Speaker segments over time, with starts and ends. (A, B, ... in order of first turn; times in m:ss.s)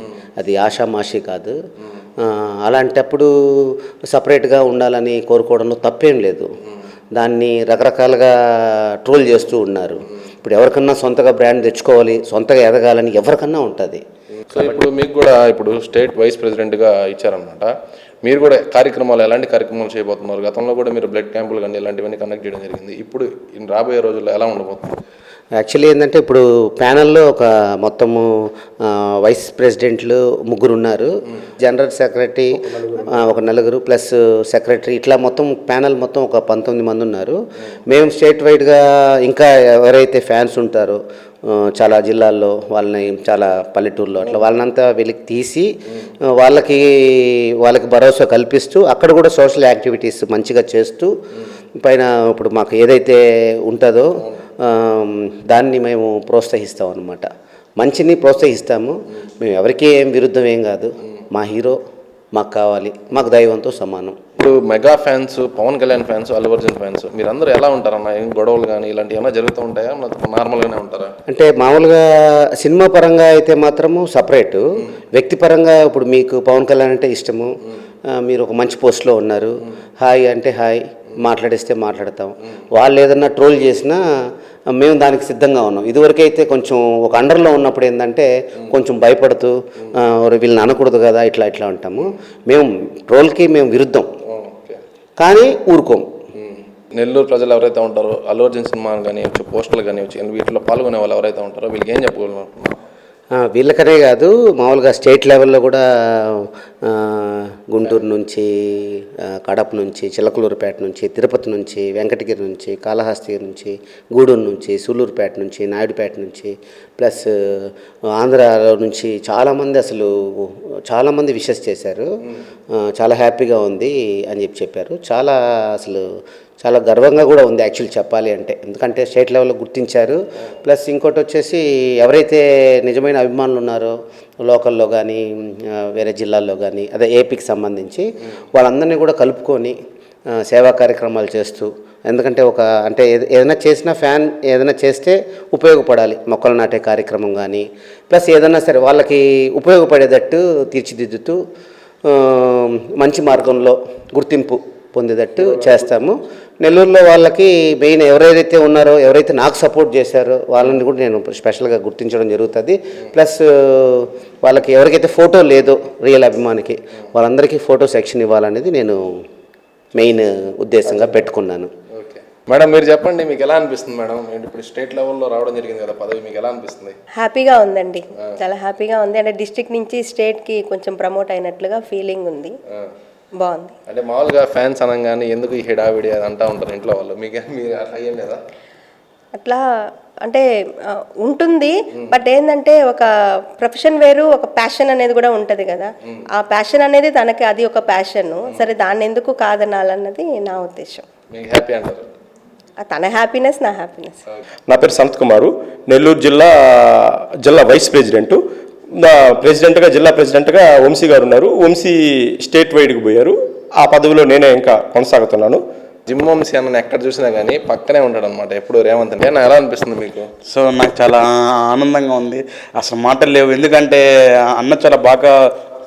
0:00.4-0:01.6 A
0:02.2-0:06.5 A
0:07.1-0:14.0 A
0:14.5-0:17.7 B
0:18.2-0:25.0 B
0:25.6-0:45.7 A
0:46.3-0:51.1 A
0:51.8-0:57.2 A
0:57.8-1:01.8 A
1:02.3-1:04.1 A
1:04.4-1:11.1 B
1:11.3-1:17.6 A
1:18.1-1:24.0 A
1:24.7-1:34.1 A
1:34.3-1:34.8 B
1:35.2-1:36.1 A
1:36.4-1:42.8 B
1:43.3-2:02.1 A
2:02.7-2:06.0 A
2:06.6-2:19.8 A
2:20.3-2:31.4 A
2:32.0-2:49.0 A
2:49.9-2:51.7 A
2:51.9-2:57.0 B
2:57.2-3:02.5 C
3:03.4-3:03.7 C
3:03.9-3:08.4 B
3:09.4-3:09.6 C
3:10.2-3:21.0 C
3:21.3-3:22.1 B
3:22.8-3:24.2 C
3:24.7-3:28.4 D
3:28.9-3:35.6 D
3:36.1-3:40.3 B
3:40.5-3:45.4 E